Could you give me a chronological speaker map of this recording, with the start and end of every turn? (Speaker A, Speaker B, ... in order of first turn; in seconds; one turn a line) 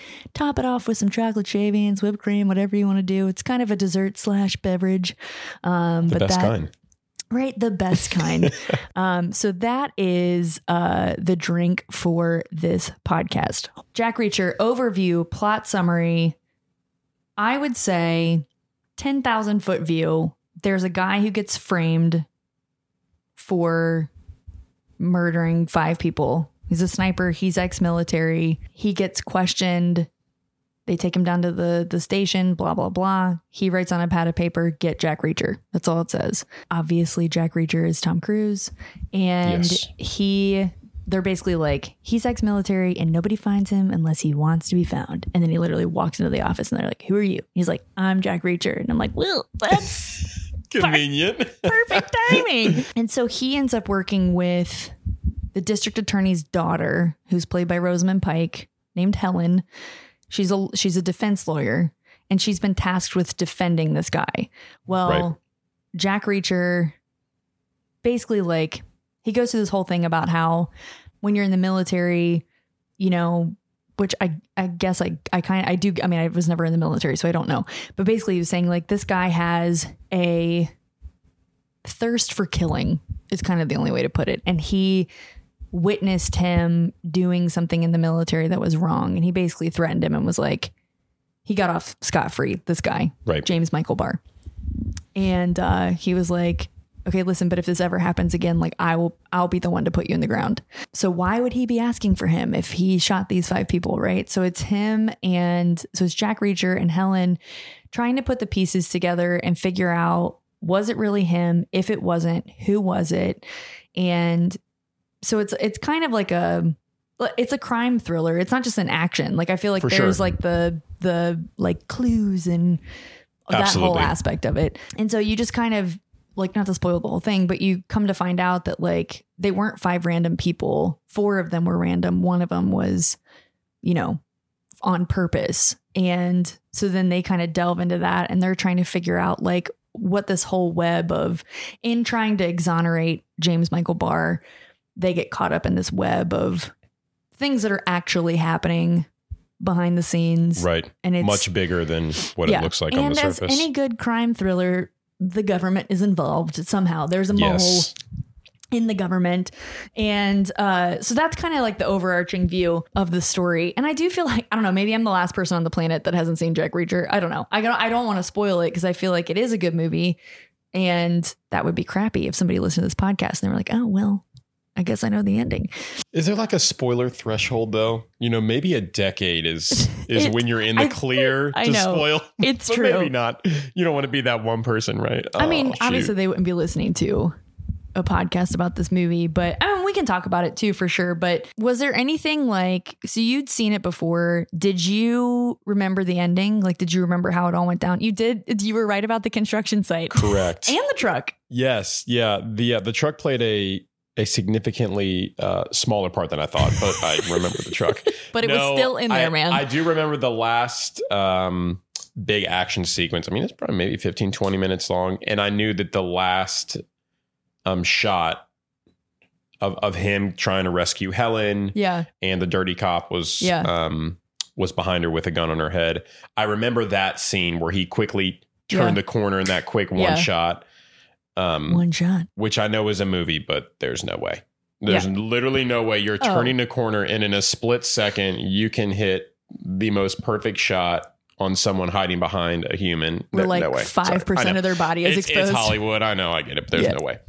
Speaker A: 0.3-6.5
Speaker B: 6.1-6.7
Speaker A: 7.3-16.4
Speaker B: 8.1-8.5
Speaker A: 17.4-18.4
Speaker A: 19.0-22.2
Speaker A: 23.4-24.1
Speaker A: 25.0-30.1
Speaker A: 30.9-51.0
Speaker B: 39.4-39.9
Speaker B: 50.7-52.8
Speaker A: 51.6-54.9
Speaker A: 55.5-59.6
Speaker A: 60.3-65.4
Speaker A: 65.9-66.9
Speaker A: 68.0-70.7
Speaker A: 71.2-72.4
Speaker A: 73.0-80.7
Speaker A: 81.8-85.1
Speaker A: 85.7-90.7
Speaker A: 91.5-94.2
Speaker A: 95.2-107.4
Speaker A: 107.9-113.4
Speaker A: 114.0-114.6
Speaker A: 115.2-122.8
Speaker B: 119.8-120.2
Speaker A: 123.5-133.2
Speaker B: 123.5-124.1
Speaker A: 133.8-134.2
Speaker A: 134.8-144.4
Speaker A: 144.9-146.7
Speaker A: 147.4-149.1
Speaker A: 149.6-151.5
Speaker B: 150.6-153.7
Speaker A: 152.4-157.9
Speaker B: 157.3-157.9
Speaker A: 158.7-170.2
Speaker A: 170.7-174.2
Speaker A: 174.8-175.7
Speaker B: 176.1-186.1
Speaker A: 179.7-183.1
Speaker A: 185.4-187.3
Speaker A: 187.9-201.3
Speaker B: 200.1-200.8
Speaker B: 201.5-216.8
Speaker A: 208.2-209.7
Speaker B: 217.6-218.4
Speaker B: 219.6-230.6
Speaker A: 221.7-222.1
Speaker A: 223.4-223.7
Speaker A: 228.7-229.0
Speaker A: 229.9-230.3
Speaker B: 231.3-231.8
Speaker A: 231.7-232.3
Speaker B: 232.3-247.2
Speaker A: 236.2-236.5
Speaker A: 243.3-245.8